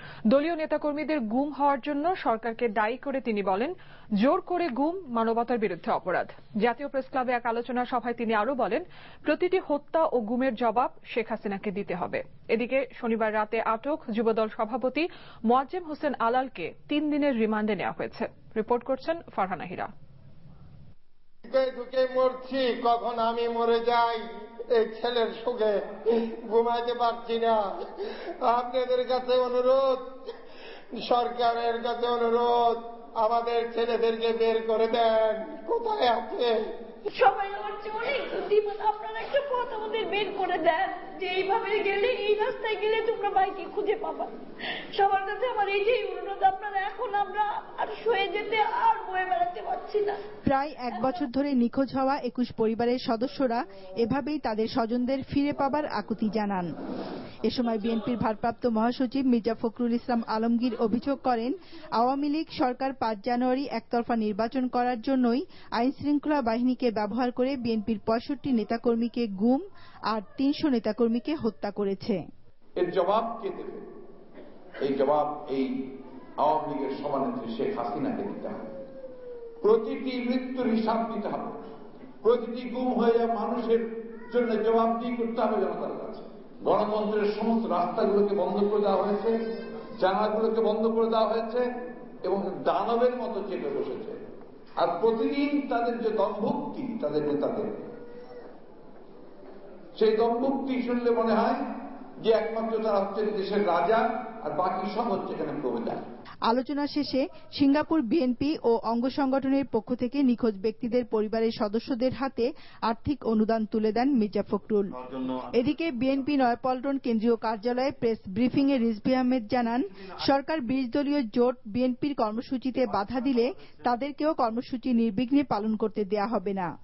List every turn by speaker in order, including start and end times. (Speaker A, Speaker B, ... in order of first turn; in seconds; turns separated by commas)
Speaker A: 0.3-19.9, Speaker B: 21.4-25.8, Speaker B: 26.4-27.7, Speaker B: 28.4-30.3, Speaker B: 30.9-36.5, Speaker C: 37.1-44.4, Speaker C: 44.9-50.2, Speaker D: 50.5-56.7, Speaker D: 57.5-72.2, Speaker E: 72.8-73.8, Speaker E: 74.8-75.7, Speaker E: 76.4-78.7, Speaker E: 79.6-81.6, Speaker E: 82.2-89.3, Speaker E: 90.0-91.7, Speaker E: 92.2-94.2, Speaker E: 94.8-97.9, Speaker E: 100.0-101.6, Speaker E: 102.2-106.0, Speaker D: 106.5-114.9, Speaker D: 115.5-126.7